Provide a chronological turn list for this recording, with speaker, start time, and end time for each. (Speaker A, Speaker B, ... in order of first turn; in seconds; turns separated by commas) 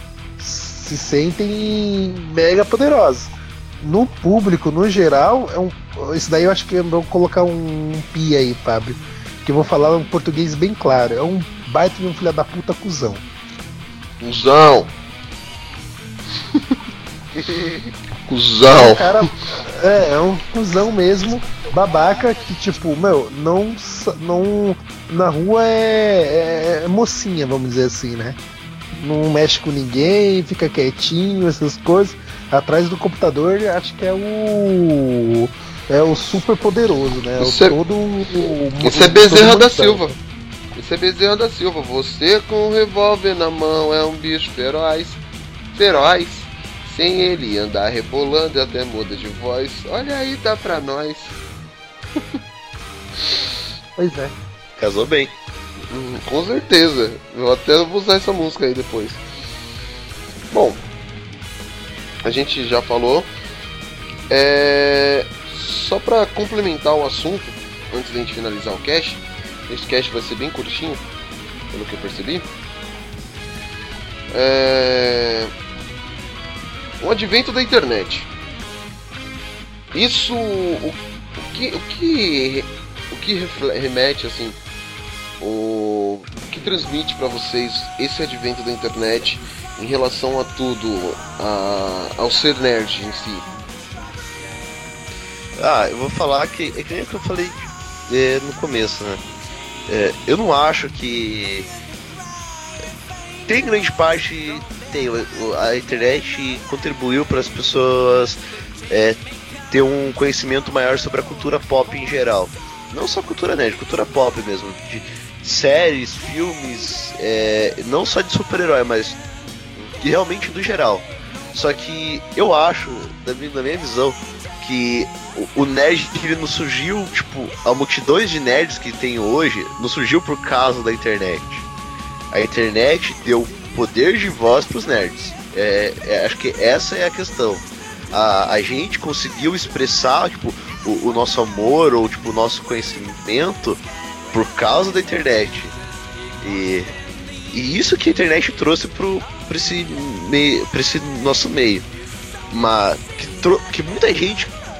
Speaker A: 0.4-13.2, Speaker B: 14.2-14.9, Speaker B: 16.5-16.8, Speaker C: 17.5-17.8, Speaker B: 18.3-19.2, Speaker A: 18.7-28.4, Speaker A: 28.9-40.1, Speaker B: 37.4-37.8, Speaker B: 38.8-40.1, Speaker B: 40.7-45.2, Speaker B: 45.7-51.4, Speaker A: 54.0-54.4, Speaker C: 54.8-55.3, Speaker B: 55.9-59.2, Speaker B: 60.5-60.8, Speaker B: 62.2-63.3, Speaker B: 64.3-71.0, Speaker B: 71.7-72.4, Speaker B: 74.3-75.5, Speaker B: 77.0-78.3, Speaker B: 79.9-84.6, Speaker B: 85.4-93.5, Speaker C: 95.6-99.2, Speaker C: 99.9-101.7, Speaker C: 103.5-108.4, Speaker C: 108.9-109.2, Speaker C: 109.7-119.2, Speaker C: 120.0-131.6, Speaker C: 132.3-143.8, Speaker C: 144.3-145.8, Speaker C: 146.4-146.9, Speaker C: 147.5-151.8, Speaker C: 152.5-154.5